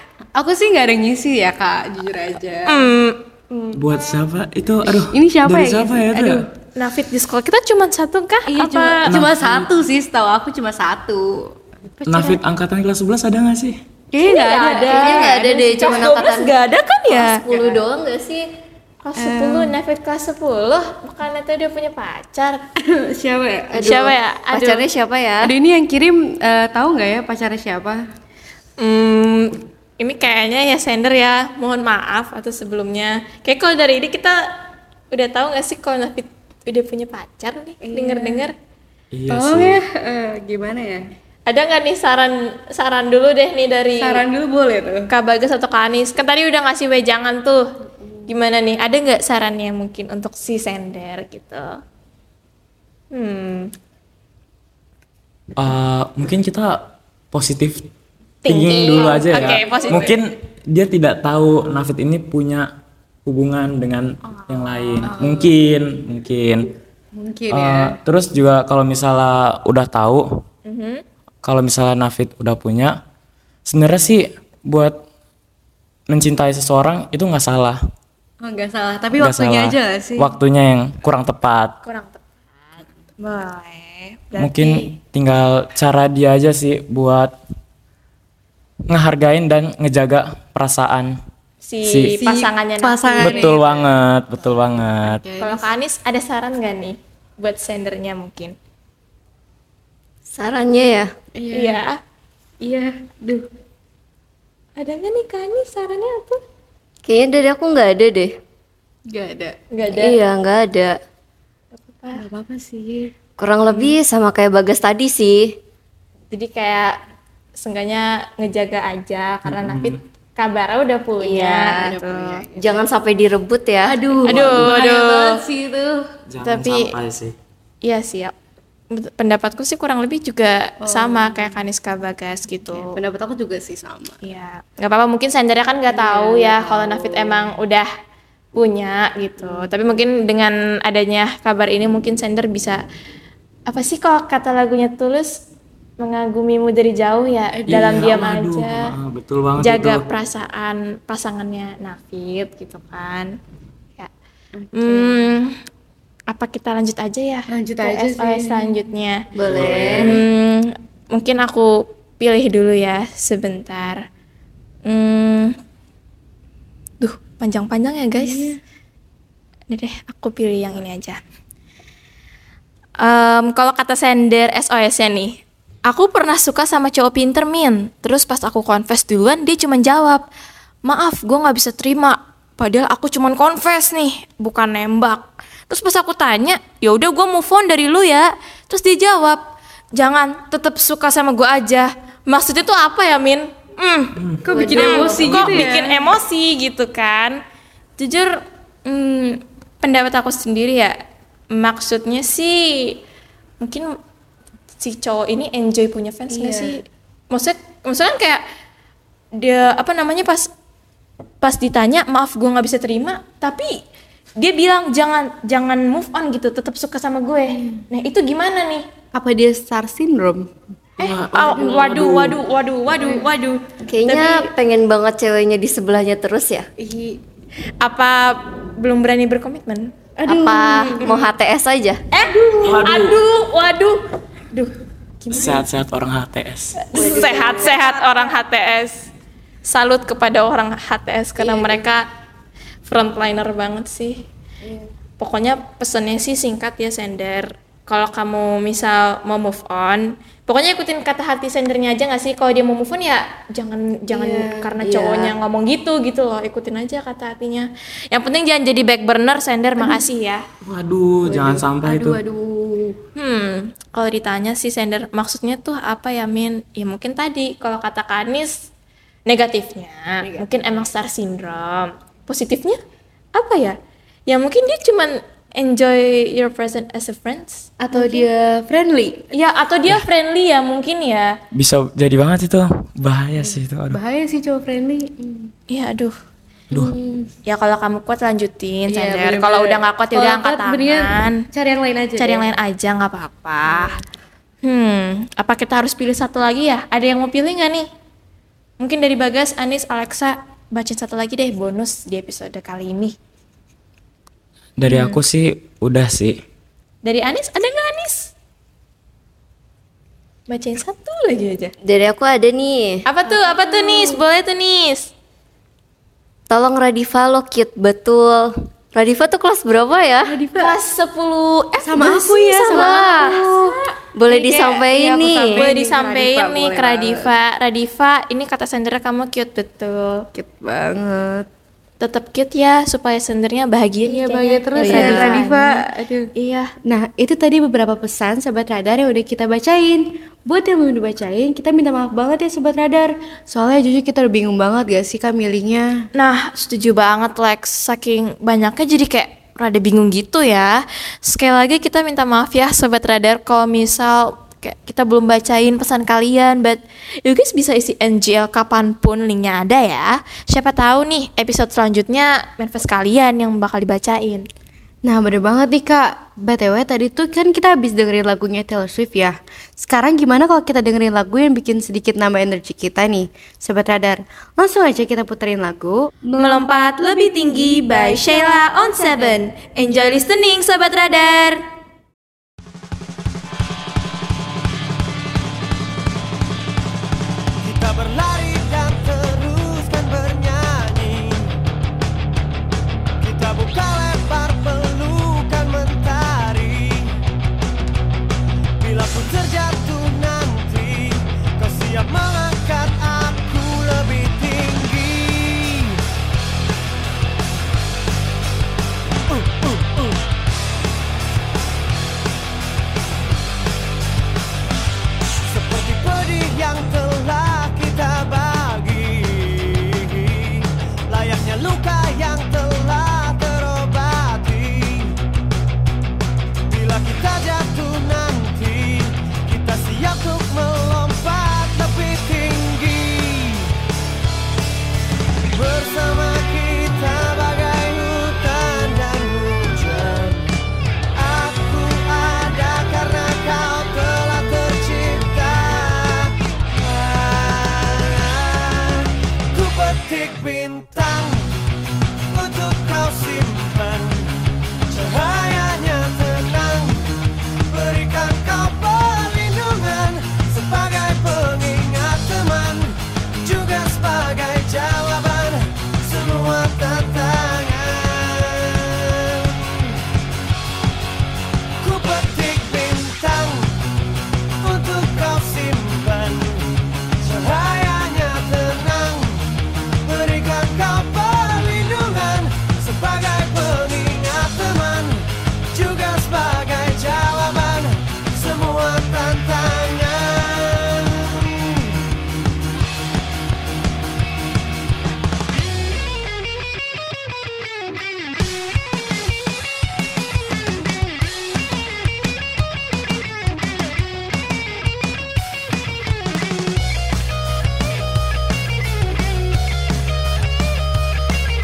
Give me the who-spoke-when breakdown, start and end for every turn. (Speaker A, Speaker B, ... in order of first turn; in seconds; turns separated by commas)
Speaker A: 0.4-2.9, Speaker B: 2.7-3.8, Speaker C: 3.8-6.4, Speaker A: 4.9-6.5, Speaker B: 6.8-9.2, Speaker A: 8.5-12.4, Speaker C: 9.1-9.7, Speaker C: 12.1-13.8, Speaker A: 14.1-15.6, Speaker B: 14.2-17.4, Speaker D: 14.8-16.5, Speaker D: 17.1-18.5, Speaker B: 19.0-22.6, Speaker A: 19.2-19.8, Speaker A: 22.8-24.0, Speaker D: 23.7-25.5, Speaker B: 23.8-24.9, Speaker A: 25.4-28.0, Speaker B: 28.8-34.4, Speaker B: 35.1-38.5, Speaker A: 37.8-38.5, Speaker C: 39.1-39.8, Speaker A: 39.3-41.1, Speaker B: 41.5-44.3, Speaker A: 44.0-45.1, Speaker B: 45.1-47.6, Speaker B: 48.3-51.7, Speaker B: 53.1-53.7, Speaker C: 55.6-57.9, Speaker B: 58.5-60.1, Speaker C: 58.5-62.7, Speaker A: 59.7-60.0, Speaker C: 63.3-66.7, Speaker A: 65.0-65.5, Speaker A: 67.1-68.0, Speaker C: 67.5-70.3, Speaker B: 70.7-71.0, Speaker C: 71.4-73.0, Speaker C: 73.7-75.0, Speaker C: 76.1-77.8, Speaker A: 78.4-80.3, Speaker C: 79.2-81.8, Speaker B: 81.8-82.2, Speaker B: 83.2-84.9, Speaker C: 84.4-87.3, Speaker C: 88.9-91.2, Speaker B: 91.6-93.8, Speaker C: 91.8-92.2, Speaker A: 92.2-93.7, Speaker C: 93.2-95.2, Speaker A: 95.0-95.7, Speaker B: 95.4-98.5, Speaker D: 100.3-101.1, Speaker A: 101.3-101.8, Speaker B: 101.5-102.0, Speaker A: 102.6-103.5, Speaker B: 104.8-106.4, Speaker D: 107.0-108.4, Speaker A: 109.1-109.6, Speaker B: 109.7-110.2, Speaker D: 109.9-111.0, Speaker B: 111.8-112.2, Speaker A: 112.1-113.1, Speaker D: 113.4-115.6, Speaker B: 116.3-117.0, Speaker B: 117.6-122.5, Speaker C: 119.5-120.0, Speaker D: 121.2-121.8, Speaker A: 121.8-122.7, Speaker D: 122.5-124.2, Speaker A: 123.9-126.0, Speaker B: 124.2-125.4, Speaker C: 124.3-124.8, Speaker C: 126.3-127.3, Speaker B: 126.4-126.9, Speaker B: 127.8-128.3, Speaker B: 128.9-133.0, Speaker A: 130.8-131.6, Speaker A: 132.7-134.2, Speaker B: 134.2-137.9, Speaker A: 135.9-137.5, Speaker B: 138.6-142.8, Speaker A: 139.4-139.8, Speaker B: 143.7-145.4, Speaker B: 146.0-148.9, Speaker A: 147.6-148.1, Speaker C: 147.7-150.0, Speaker B: 149.6-153.3, Speaker A: 154.6-155.3, Speaker B: 154.7-155.5, Speaker B: 156.3-159.2, Speaker A: 157.5-158.9, Speaker D: 159.4-160.2, Speaker C: 159.5-160.2, Speaker B: 159.9-164.0, Speaker B: 164.9-165.6, Speaker B: 167.0-168.6, Speaker A: 168.2-168.6, Speaker B: 169.7-171.2, Speaker B: 173.0-180.3, Speaker B: 180.8-189.4, Speaker B: 190.0-197.4, Speaker C: 194.2-195.7, Speaker A: 194.4-196.1, Speaker D: 194.5-195.3, Speaker B: 198.0-201.0, Speaker B: 201.5-203.0, Speaker B: 203.6-203.9, Speaker B: 204.8-208.4, Speaker A: 206.3-206.8, Speaker B: 209.4-210.5, Speaker B: 211.4-213.8, Speaker B: 214.4-218.9, Speaker A: 217.5-217.8, Speaker A: 219.1-220.5, Speaker C: 221.0-222.4, Speaker B: 221.0-224.5, Speaker A: 221.5-221.9, Speaker A: 223.0-223.3, Speaker D: 223.9-226.7, Speaker A: 226.8-227.2, Speaker B: 227.8-229.9, Speaker A: 230.2-231.1, Speaker D: 230.2-232.0, Speaker B: 230.5-231.2, Speaker B: 232.1-234.0, Speaker A: 232.3-232.8, Speaker C: 232.6-233.2, Speaker A: 235.2-235.6, Speaker C: 235.3-236.8, Speaker A: 236.8-238.4, Speaker B: 236.9-239.1, Speaker B: 239.7-242.1, Speaker A: 241.4-241.9, Speaker B: 242.9-244.2, Speaker B: 245.2-260.4, Speaker A: 254.1-255.3, Speaker A: 259.8-260.0, Speaker C: 260.6-262.2, Speaker A: 261.2-263.0, Speaker B: 263.2-268.7, Speaker B: 269.3-272.8, Speaker A: 270.2-270.7, Speaker B: 273.4-273.8, Speaker B: 274.3-278.3, Speaker A: 277.8-279.3, Speaker B: 279.3-281.3, Speaker C: 281.5-284.0, Speaker A: 283.4-285.5, Speaker B: 285.7-286.1, Speaker A: 286.7-287.3, Speaker B: 287.5-291.4, Speaker A: 288.9-292.5, Speaker B: 292.2-294.0, Speaker A: 293.7-294.0, Speaker B: 294.6-297.9, Speaker B: 298.8-303.1, Speaker C: 304.8-306.4, Speaker A: 304.9-305.2, Speaker B: 307.0-308.3, Speaker B: 310.5-311.7, Speaker D: 311.8-313.1, Speaker B: 313.1-315.1, Speaker A: 313.3-314.2, Speaker D: 316.5-320.3, Speaker A: 320.3-320.8, Speaker B: 320.6-323.8, Speaker A: 321.8-323.7, Speaker D: 322.7-323.4, Speaker D: 324.1-325.6, Speaker A: 324.3-327.3, Speaker B: 325.5-330.2, Speaker A: 330.3-331.5, Speaker B: 332.0-335.8, Speaker A: 334.0-336.3, Speaker D: 334.8-335.4, Speaker B: 336.4-336.7, Speaker A: 336.9-345.9, Speaker B: 346.1-364.5, Speaker A: 365.0-376.7, Speaker B: 376.4-381.6, Speaker A: 377.9-378.6, Speaker E: 387.6-391.5, Speaker E: 393.2-397.1, Speaker E: 398.8-406.0, Speaker E: 409.3-410.1, Speaker E: 415.5-425.1, Speaker E: 426.7-433.7, Speaker E: 435.5-440.5, Speaker E: 441.1-451.5, Speaker E: 452.3-454.3, Speaker E: 454.9-457.2, Speaker E: 457.7-469.9, Speaker E: 471.8-473.8, Speaker E: 474.6-479.4, Speaker E: 480.0-491.9